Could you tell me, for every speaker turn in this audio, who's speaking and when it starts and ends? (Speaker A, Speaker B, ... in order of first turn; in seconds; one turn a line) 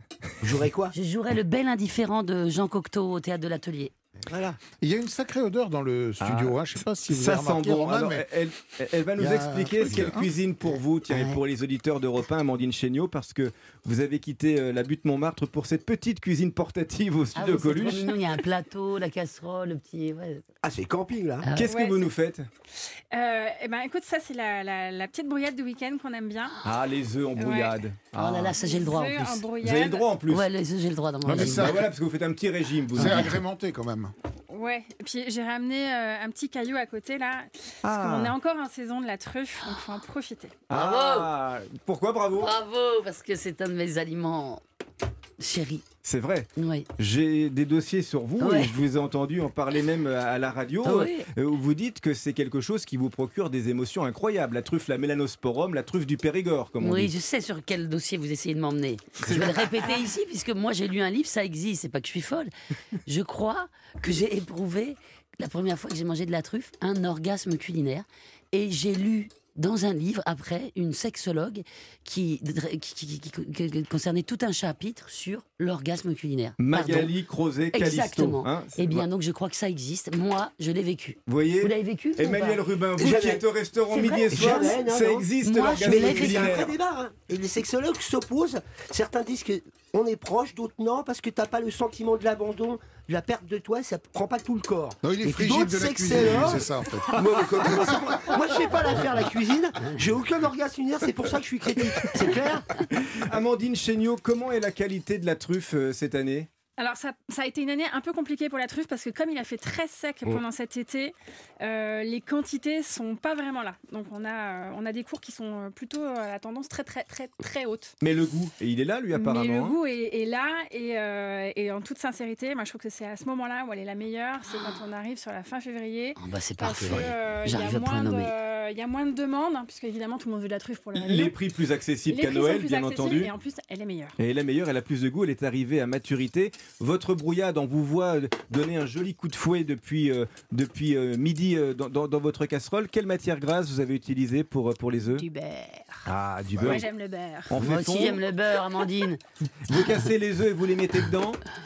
Speaker A: 0.4-0.9
Speaker B: 0.9-3.9
Speaker A: 4.2-4.6
Speaker C: 4.8-8.3
Speaker D: 6.2-18.2
Speaker C: 9.2-10.3
Speaker B: 10.7-11.4
Speaker B: 17.4-20.4
Speaker A: 20.6-21.5
Speaker B: 21.4-21.7
Speaker D: 21.5-22.5
Speaker E: 21.6-22.1
Speaker E: 23.1-26.6
Speaker D: 26.6-28.6
Speaker E: 27.4-27.8
Speaker B: 28.2-29.4
Speaker E: 28.6-30.1
Speaker D: 29.6-30.5
Speaker B: 30.3-31.8
Speaker C: 31.2-31.9
Speaker D: 31.3-33.4
Speaker C: 32.9-34.1
Speaker B: 33.0-33.4
Speaker E: 34.5-40.6
Speaker D: 37.8-38.3
Speaker D: 40.7-42.5
Speaker B: 40.7-41.3
Speaker B: 42.3-44.6
Speaker B: 45.4-45.8
Speaker D: 46.0-57.1
Speaker B: 46.6-46.9
Speaker B: 48.4-48.7
Speaker B: 50.8-51.3
Speaker B: 56.8-62.5
Speaker D: 59.2-60.0
Speaker B: 63.1-77.1
Speaker D: 76.6-79.1
Speaker B: 77.7-82.6
Speaker D: 81.3-86.8
Speaker A: 83.0-83.5
Speaker B: 83.9-84.8
Speaker A: 84.1-102.7
Speaker B: 85.4-86.6
Speaker C: 95.0-98.4
Speaker D: 102.1-106.5
Speaker E: 106.8-118.0
Speaker D: 118.0-119.8
Speaker E: 119.1-131.4
Speaker B: 126.2-128.3
Speaker D: 130.9-133.3
Speaker E: 132.1-134.2
Speaker D: 134.2-145.2
Speaker E: 145.2-146.1
Speaker D: 146.1-146.9
Speaker E: 146.6-147.6
Speaker D: 147.5-148.2
Speaker B: 147.5-150.0
Speaker D: 149.6-151.4